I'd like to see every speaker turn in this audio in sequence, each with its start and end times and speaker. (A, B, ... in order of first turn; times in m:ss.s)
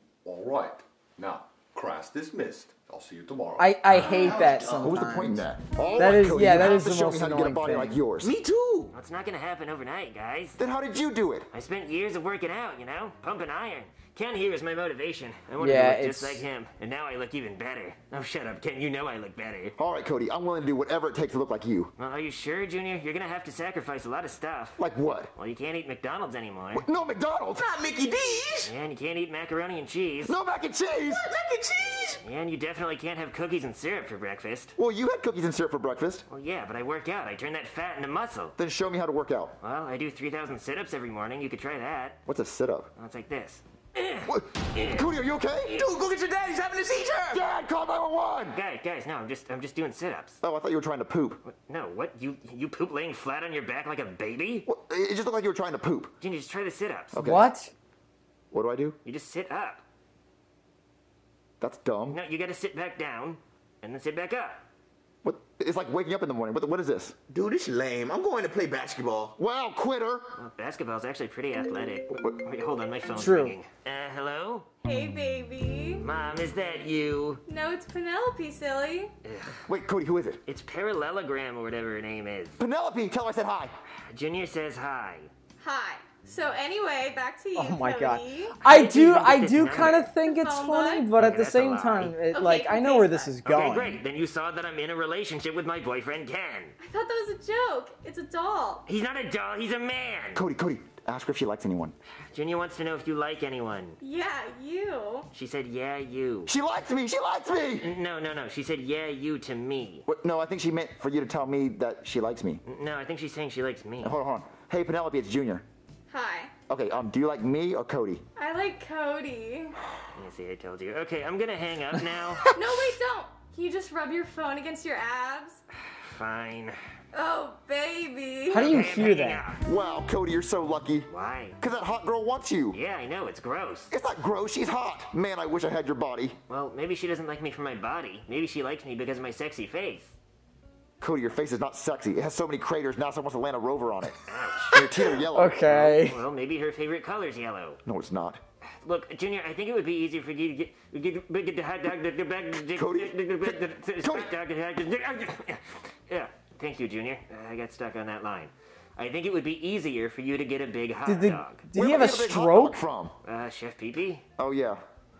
0:00.2-0:03.7 A
0:03.6-0:08.0 B
0:03.9-0:05.0 C
0:04.8-0:08.3 D
0:08.2-0:08.9 C
0:08.9-0:10.6 E
0:10.6-0:11.5 D
0:11.5-0:19.8 E
0:15.6-0:16.4 B
0:19.8-0:21.9 D
0:22.0-0:24.8 E
0:24.8-0:25.3 D
0:25.3-0:26.9 E
0:26.7-0:27.7 D
0:27.6-0:28.7 C
0:28.6-0:30.4 E
0:30.2-0:31.3 D
0:31.0-0:32.2 C
0:32.2-0:34.8 E
0:34.8-0:36.3 D
0:36.3-0:38.6 E
0:38.6-0:39.6 D
0:39.6-0:42.2 E
0:42.3-0:42.9 D
0:43.0-0:45.1 E
0:44.3-0:45.8 D
0:45.7-0:47.4 C
0:47.3-0:48.6 D
0:48.5-0:50.4 E
0:50.4-0:51.4 D
0:51.4-0:54.7 E
0:54.7-0:56.1 D
0:56.2-0:57.1 E
0:57.1-0:57.4 D
0:57.1-0:57.7 B
0:58.5-0:59.0 D
0:59.0-0:59.8 E
1:01.6-1:02.2 D
1:02.1-1:04.6 E
1:05.2-1:07.2 D
1:07.3-1:09.4 C
1:09.4-1:10.4 D
1:10.4-1:14.7 E
1:13.1-1:13.6 B
1:14.8-1:15.1 A
1:15.0-1:15.9 F
1:16.0-1:17.4 E
1:17.5-1:19.1 F
1:19.2-1:19.6 E
1:19.7-1:20.4 D
1:20.5-1:22.6 E
1:22.6-1:23.7 D
1:24.1-1:25.3 E
1:25.6-1:27.6 F
1:27.6-1:34.0 B
1:27.6-1:28.4 A
1:28.6-1:30.1 E
1:30.4-1:30.7 F
1:30.7-1:31.0 A
1:31.2-1:32.2 E
1:32.3-1:32.7 F
1:32.7-1:33.3 A
1:33.4-1:36.8 E
1:36.8-1:38.8 F
1:38.9-1:40.4 E
1:40.4-1:42.0 D
1:42.3-1:44.0 E
1:44.0-1:45.2 F
1:45.3-1:46.5 E
1:46.5-1:47.9 D
1:47.8-1:50.1 E
1:50.1-1:52.6 D
1:52.6-1:54.1 E
1:54.0-1:55.6 D
1:56.1-1:56.5 F
1:56.7-1:58.2 D
1:58.4-1:59.7 F
2:00.1-2:02.5 E
2:02.6-2:05.6 F
2:06.0-2:06.8 E
2:07.2-2:08.5 F
2:07.3-2:08.4 A
2:08.5-2:09.4 B
2:08.5-2:09.6 E
2:09.6-2:11.1 D
2:11.1-2:11.6 E
2:11.6-2:12.8 D
2:12.7-2:13.9 E
2:13.9-2:16.4 D
2:16.5-2:20.2 E
2:21.0-2:25.6 D
2:24.3-2:24.8 E
2:25.3-2:26.2 B
2:25.6-2:27.8 E
2:27.8-2:28.4 D
2:28.8-2:41.6 E
2:32.8-2:34.3 D
2:41.0-2:42.8 B
2:41.8-2:43.1 D
2:43.2-2:44.2 E
2:44.4-2:44.8 D